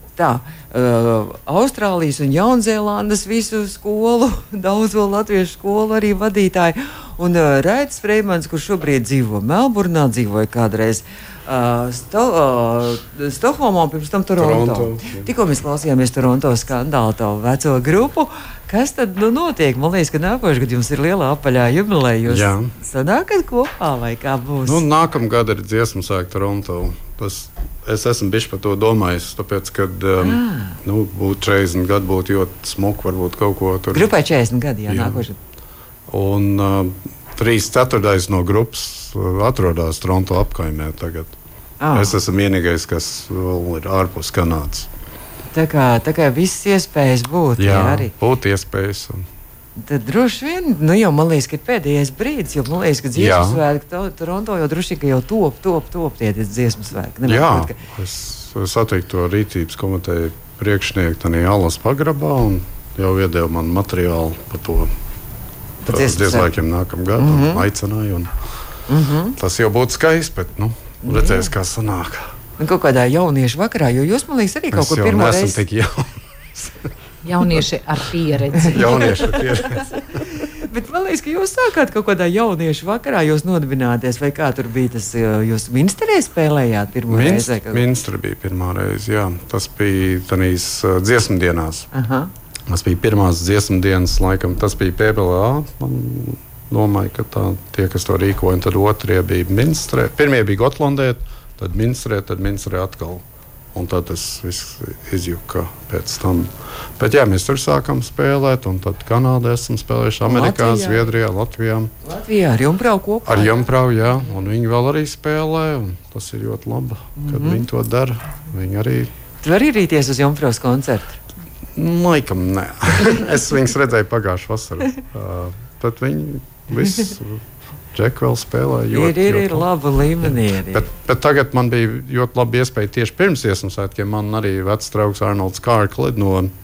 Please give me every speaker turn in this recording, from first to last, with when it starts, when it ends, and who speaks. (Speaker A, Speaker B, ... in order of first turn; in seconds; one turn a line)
Speaker A: 0.1-24.8
Speaker B: 14.4-15.3
Speaker B: 22.3-22.7
Speaker B: 24.6-34.1
Speaker A: 30.2-30.8
Speaker A: 33.9-35.4
Speaker B: 34.9-35.2
Speaker B: 36.1-41.3
Speaker A: 41.8-42.2
Speaker B: 41.9-44.9
Speaker A: 45.5-48.1
Speaker B: 47.6-49.2
Speaker A: 49.8-57.8
Speaker B: 53.1-53.6
Speaker B: 57.2-64.9
Speaker B: 65.8-68.3
Speaker A: 65.9-66.5
Speaker A: 67.2-67.6
Speaker A: 68.9-69.3
Speaker B: 69.4-72.3
Speaker A: 71.0-71.5
Speaker A: 72.6-75.6
Speaker B: 74.7-76.7
Speaker C: 77.2-79.3
Speaker B: 78.7-80.3
Speaker A: 78.9-87.8
Speaker B: 87.1-91.9
Speaker A: 91.9-92.3
Speaker B: 92.7-103.2
Speaker B: 103.7-111.9
Speaker A: 110.2-111.1
Speaker A: 112.0-113.7
Speaker B: 113.2-119.1
Speaker A: 117.2-117.6
Speaker A: 119.4-121.2
Speaker B: 121.8-127.4
Speaker A: 126.8-127.1
Speaker B: 127.9-129.7
Speaker A: 128.9-130.9
Speaker B: 130.2-136.5